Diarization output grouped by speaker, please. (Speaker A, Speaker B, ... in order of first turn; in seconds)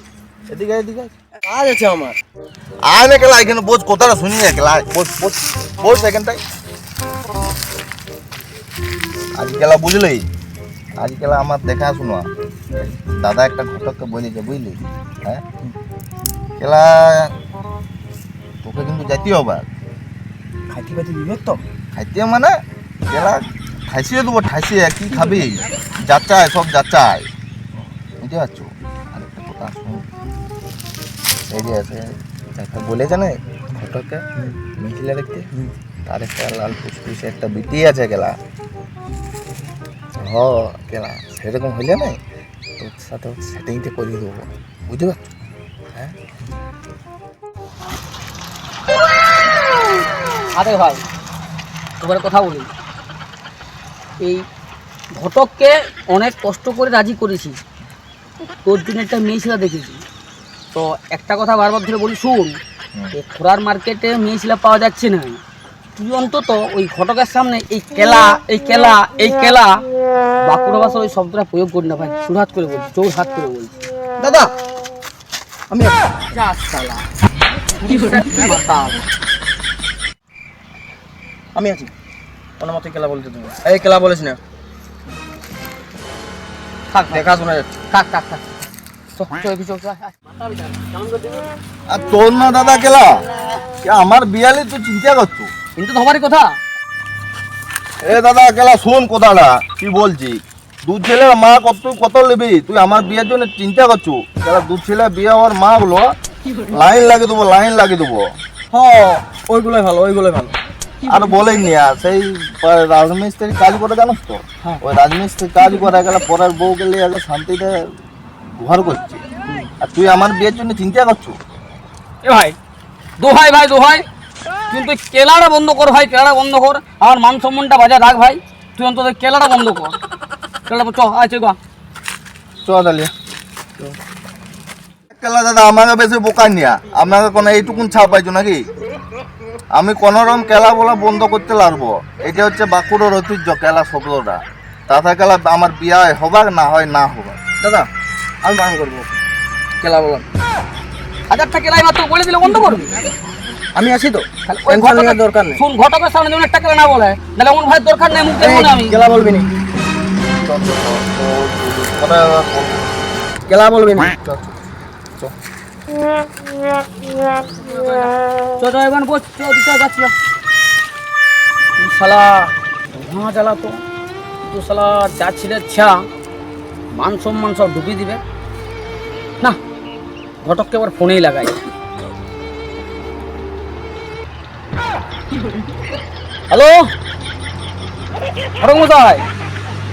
Speaker A: 0.5-1.1, 2.9-6.4, 9.4-10.2, 11.0-15.4, 16.6-17.3, 18.6-19.7, 21.9-22.5, 23.1-27.3, 28.2-30.1, 31.5-38.4, 40.2-42.2, 42.8-45.2, 91.9-93.1, 93.8-95.5, 98.0-106.2, 106.7-108.2, 111.1-117.7, 118.6-119.2, 119.8-121.4, 132.6-133.1, 135.1-138.6, 139.7-147.4, 160.3-162.9
Speaker B: 1.4-2.2, 20.7-21.6, 74.2-74.5, 75.7-76.3, 81.5-81.9, 82.6-84.4, 87.1-87.7, 108.7-110.6, 147.6-147.9, 148.4-149.2, 149.8-150.3, 153.7-155.6, 158.4-159.5, 163.5-164.2
Speaker C: 50.5-51.0, 52.0-52.7, 55.1-57.6, 58.6-60.0, 60.7-62.5, 63.1-65.4, 66.0-69.8, 70.4-73.7, 76.3-77.0, 77.8-79.0, 86.9-87.4, 87.9-88.5, 89.2-91.3, 95.8-96.6, 122.2-122.6, 123.2-124.0, 124.7-129.9, 130.7-131.6, 151.3-152.9, 154.5-159.0, 167.6-168.0, 168.6-170.1, 171.8-173.8, 174.4-176.0, 176.9-178.2, 180.4-181.6, 186.5-186.9, 188.6-189.2